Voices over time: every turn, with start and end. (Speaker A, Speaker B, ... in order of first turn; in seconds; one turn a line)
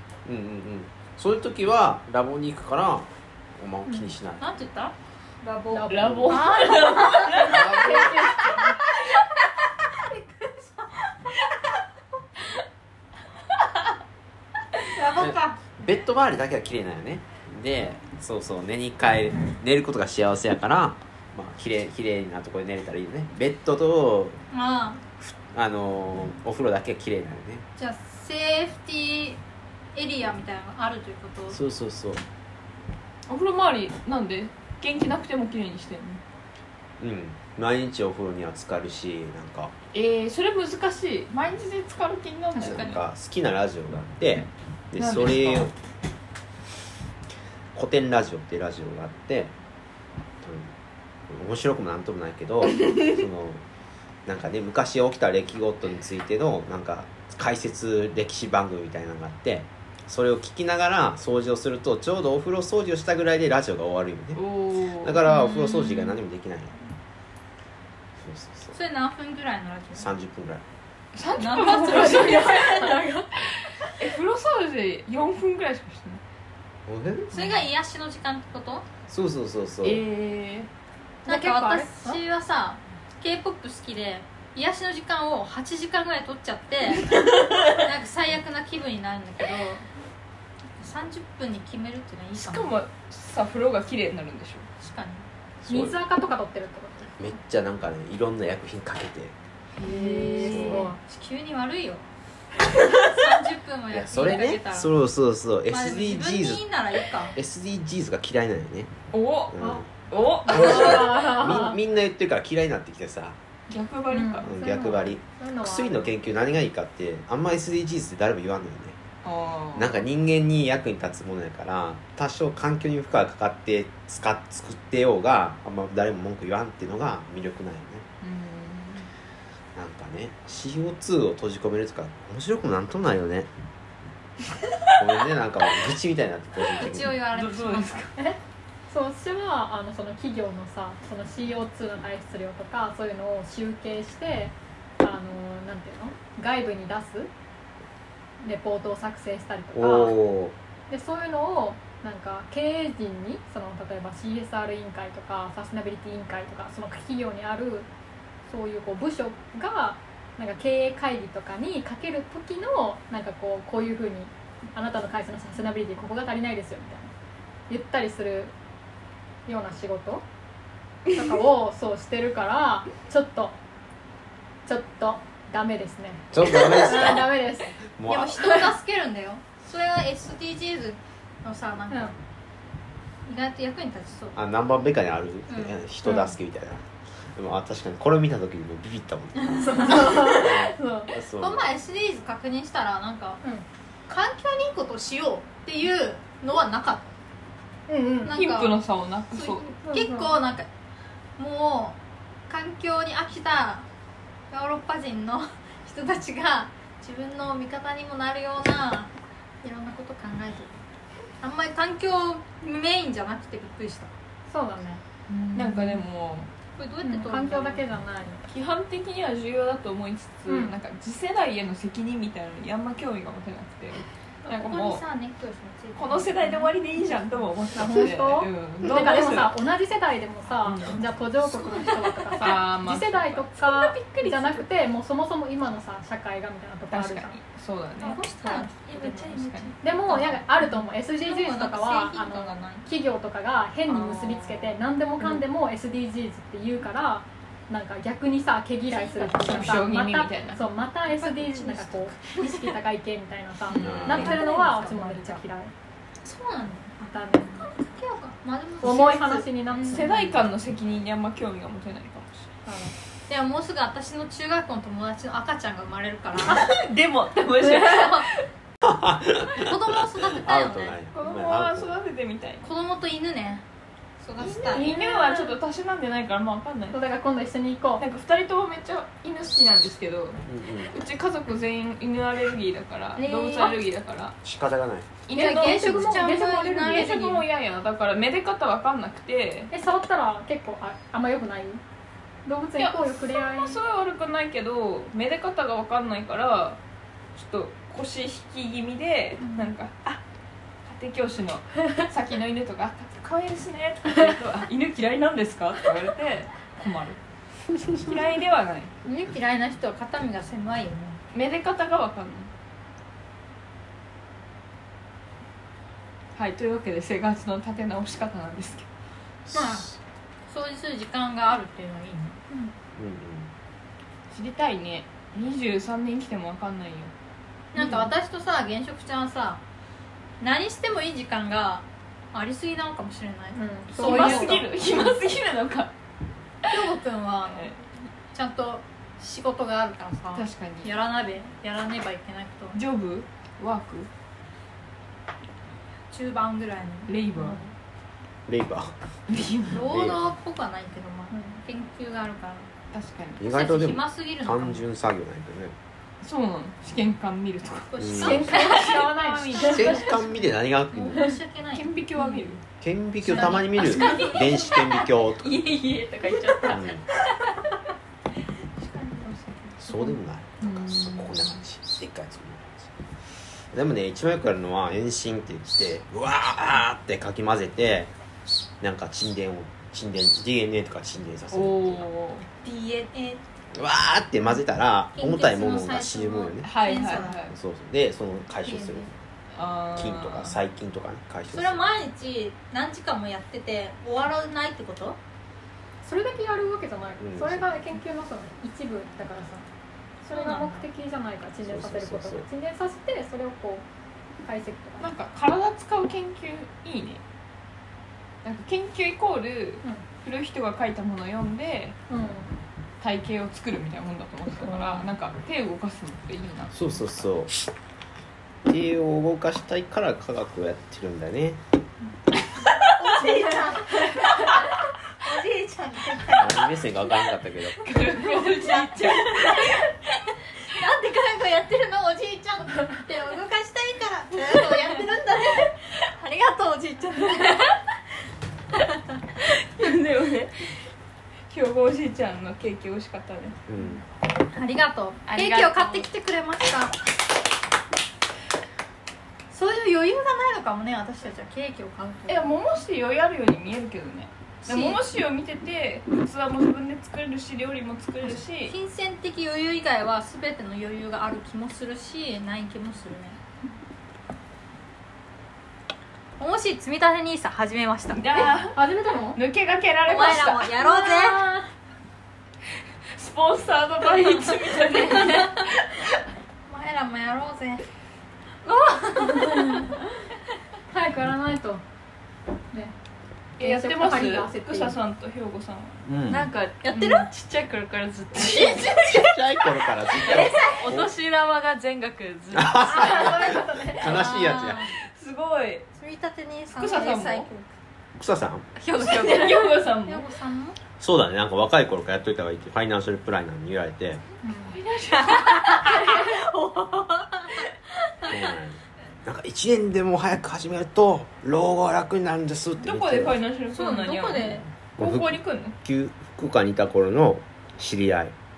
Speaker A: 0.2-4.4
Speaker B: 4.4-8.8
Speaker C: 5.7-6.8
Speaker D: 5.9-8.8
Speaker A: 6.0-6.4
Speaker A: 7.3-8.3
Speaker C: 7.8-8.4
Speaker B: 10.0-11.0
Speaker B: 14.9-15.6
Speaker A: 15.1-24.4
Speaker B: 24.5-25.0
Speaker A: 25.2-27.6
Speaker B: 27.8-29.4
Speaker B: 29.9-31.6
Speaker A: 31.5-32.2
Speaker D: 33.3-36.2
Speaker A: 37.0-39.7
Speaker D: 39.9-42.9
Speaker B: 42.5-43.0
Speaker A: 42.6-45.7
Speaker D: 45.0-45.7
Speaker A: 47.7-49.5
Speaker A: 50.4-50.7
Speaker A: 51.3-53.6
Speaker A: 54.2-66.8
Speaker D: 64.3-65.4
Speaker A: 68.2-68.7
Speaker B: 68.7-70.1
Speaker A: 70.0-70.6
Speaker D: 71.1-72.7
Speaker B: 71.4-73.0
Speaker C: 71.8-73.3
Speaker D: 73.9-76.2
Speaker A: 76.9-77.7
Speaker B: 77.3-78.9
Speaker A: 79.1-80.0
Speaker D: 79.8-80.7
Speaker B: 81.2-89.8
Speaker C: 81.2-82.2
Speaker B: 90.8-92.7
Speaker D: 92.3-94.7
Speaker B: 94.8-95.3
Speaker C: 95.6-97.2
Speaker A: 95.7-96.0
Speaker A: 97.2-99.3
Speaker D: 99.8-100.9
Speaker C: 99.8-101.0
Speaker A: 100.4-100.9
Speaker B: 100.7-102.0
Speaker B: 102.9-104.9
Speaker A: 103.9-106.6
Speaker B: 105.7-107.3
Speaker A: 107.3-108.9
Speaker D: 109.1-111.1
Speaker A: 109.5-109.8
Speaker C: 110.4-111.8
Speaker A: 110.5-113.4
Speaker D: 113.7-114.5
Speaker C: 114.1-116.2
Speaker A: 114.4-119.0
Speaker D: 119.2-120.0
Speaker A: 119.7-128.0
Speaker D: 128.2-129.1
Speaker A: 129.8-133.5
Speaker A: 135.0-137.1
Speaker B: 136.8-138.1
Speaker D: 137.0-138.1
Speaker C: 138.2-147.3
Speaker C: 148.4-150.2
Speaker A: 149.7-150.5
Speaker C: 150.9-157.9
Speaker C: 158.4-167.1
Speaker C: 167.7-168.5
Speaker C: 169.4-170.2
Speaker C: 171.1-173.6
Speaker C: 174.7-177.7
Speaker A: 176.3-178.6
Speaker B: 176.9-177.2
Speaker B: 178.1-182.2
Speaker B: 183.2-184.4
Speaker A: 184.3-191.7
Speaker B: 185.5-185.8
Speaker C: 186.0-186.3
Speaker B: 189.6-190.5
Speaker C: 189.6-191.2
Speaker B: 191.4-193.4
Speaker B: 194.1-197.1
Speaker C: 197.9-198.3
Speaker B: 198.2-198.7
Speaker D: 198.3-199.8
Speaker B: 199.3-200.7
Speaker C: 199.8-200.3
Speaker B: 201.4-203.8
Speaker B: 204.5-209.1
Speaker B: 209.6-210.7
Speaker B: 211.4-214.1
Speaker C: 214.5-215.0
Speaker D: 215.5-216.5
Speaker B: 216.8-217.8
Speaker C: 217.0-218.4
Speaker D: 218.5-225.0
Speaker C: 220.5-220.8
Speaker B: 224.4-227.2
Speaker D: 225.9-229.6
Speaker C: 227.7-237.4
Speaker D: 230.6-231.0
Speaker B: 231.5-232.2
Speaker D: 232.4-234.7
Speaker D: 236.9-239.7
Speaker B: 238.0-242.9
Speaker E: 238.9-239.7
Speaker C: 239.8-255.7
Speaker D: 243.9-245.4
Speaker B: 248.9-249.9
Speaker D: 249.3-250.7
Speaker B: 251.1-252.7
Speaker D: 253.7-254.4
Speaker A: 253.8-254.3
Speaker B: 254.1-255.4
Speaker B: 256.2-260.2
Speaker C: 257.0-257.7
Speaker C: 258.8-260.3
Speaker D: 259.9-262.5
Speaker C: 262.6-262.9
Speaker B: 263.3-266.7
Speaker D: 266.4-268.4
Speaker B: 267.6-268.3
Speaker A: 268.8-271.9
Speaker B: 269.5-271.0
Speaker D: 271.1-272.6
Speaker B: 272.6-273.6
Speaker B: 274.2-274.9
Speaker D: 274.4-277.0
Speaker C: 274.7-275.6
Speaker C: 276.9-278.0
Speaker D: 278.0-284.4
Speaker A: 280.4-280.9
Speaker B: 283.2-283.8
Speaker A: 284.4-285.1
Speaker D: 285.3-286.2
Speaker B: 285.3-287.4
Speaker C: 285.3-287.2
Speaker D: 286.8-289.7
Speaker C: 289.7-291.8
Speaker C: 292.4-293.8
Speaker D: 292.8-296.8
Speaker D: 297.3-300.2
Speaker D: 300.8-307.2
Speaker D: 307.9-308.9
Speaker B: 309.0-311.2
Speaker D: 311.3-312.5
Speaker D: 316.4-318.9
Speaker A: 319.4-319.9
Speaker B: 319.5-319.9
Speaker B: 320.5-322.6
Speaker A: 322.9-323.5
Speaker D: 324.3-327.1
Speaker B: 327.7-329.6
Speaker C: 327.7-328.1
Speaker B: 330.4-334.7
Speaker C: 333.5-334.7
Speaker D: 333.9-335.9
Speaker B: 336.7-342.8
Speaker D: 340.3-340.9
Speaker D: 342.7-344.1
Speaker B: 346.1-347.7
Speaker D: 347.1-347.6
Speaker A: 348.5-348.9
Speaker D: 349.3-349.8
Speaker B: 349.7-352.7
Speaker A: 349.7-350.2
Speaker C: 351.3-351.6
Speaker D: 352.9-353.4
Speaker A: 353.4-355.7
Speaker B: 353.4-354.8
Speaker D: 356.2-357.9
Speaker B: 357.9-358.9
Speaker A: 358.0-358.5
Speaker C: 358.1-360.1
Speaker D: 358.5-360.2
Speaker A: 359.6-361.3
Speaker B: 360.9-361.9
Speaker D: 361.7-362.6
Speaker A: 362.8-365.6
Speaker B: 363.3-364.7
Speaker C: 363.3-364.4
Speaker D: 365.5-366.8
Speaker A: 366.7-367.0
Speaker A: 369.8-372.9
Speaker D: 370.6-371.6
Speaker A: 373.7-378.1
Speaker A: 378.8-382.1
Speaker D: 381.5-382.5
Speaker B: 382.6-383.4
Speaker A: 383.7-386.7
Speaker B: 385.1-387.4
Speaker D: 386.6-387.5
Speaker A: 387.3-389.1
Speaker B: 388.6-389.1
Speaker D: 389.5-390.6
Speaker A: 389.9-391.9
Speaker B: 391.5-395.2
Speaker C: 396.0-399.6
Speaker A: 397.2-397.9
Speaker C: 400.2-403.8
Speaker B: 400.3-400.9
Speaker A: 401.6-402.4
Speaker C: 404.4-405.1
Speaker D: 405.0-407.2
Speaker D: 408.4-412.0
Speaker C: 412.1-412.5
Speaker D: 413.0-417.0
Speaker A: 416.7-417.5
Speaker A: 418.6-421.6
Speaker B: 422.8-426.9
Speaker A: 426.4-427.8
Speaker D: 427.8-429.7
Speaker B: 428.1-429.9
Speaker B: 430.5-437.8
Speaker D: 439.4-440.8
Speaker D: 441.5-443.6
Speaker A: 443.7-444.0
Speaker B: 444.5-447.0
Speaker D: 445.3-446.1
Speaker B: 449.5-452.5
Speaker D: 452.3-458.7
Speaker B: 454.6-455.0
Speaker B: 458.6-463.4
Speaker B: 466.4-468.6
Speaker D: 468.1-468.8
Speaker C: 468.4-469.4
Speaker D: 469.3-470.9
Speaker B: 470.0-471.6
Speaker C: 470.9-471.5
Speaker D: 473.1-476.1
Speaker B: 475.3-475.6
Speaker B: 476.7-477.8
Speaker B: 478.6-480.0
Speaker C: 479.5-480.0
Speaker C: 480.9-481.8
Speaker D: 483.6-486.0
Speaker C: 483.6-485.0
Speaker A: 486.1-486.5
Speaker E: 486.3-489.3
Speaker B: 486.8-487.2
Speaker A: 488.8-491.1
Speaker E: 490.1-493.3
Speaker A: 492.5-494.9
Speaker C: 492.9-494.3
Speaker B: 493.1-494.9
Speaker D: 495.1-495.9
Speaker B: 495.9-497.7
Speaker D: 496.7-497.5
Speaker A: 498.1-498.7
Speaker E: 498.8-499.7
Speaker D: 499.0-500.3
Speaker B: 499.2-500.8
Speaker A: 501.0-504.2
Speaker B: 504.5-507.7
Speaker D: 504.6-506.0
Speaker A: 508.2-513.4
Speaker D: 512.8-515.8
Speaker B: 513.7-514.6
Speaker A: 515.0-518.3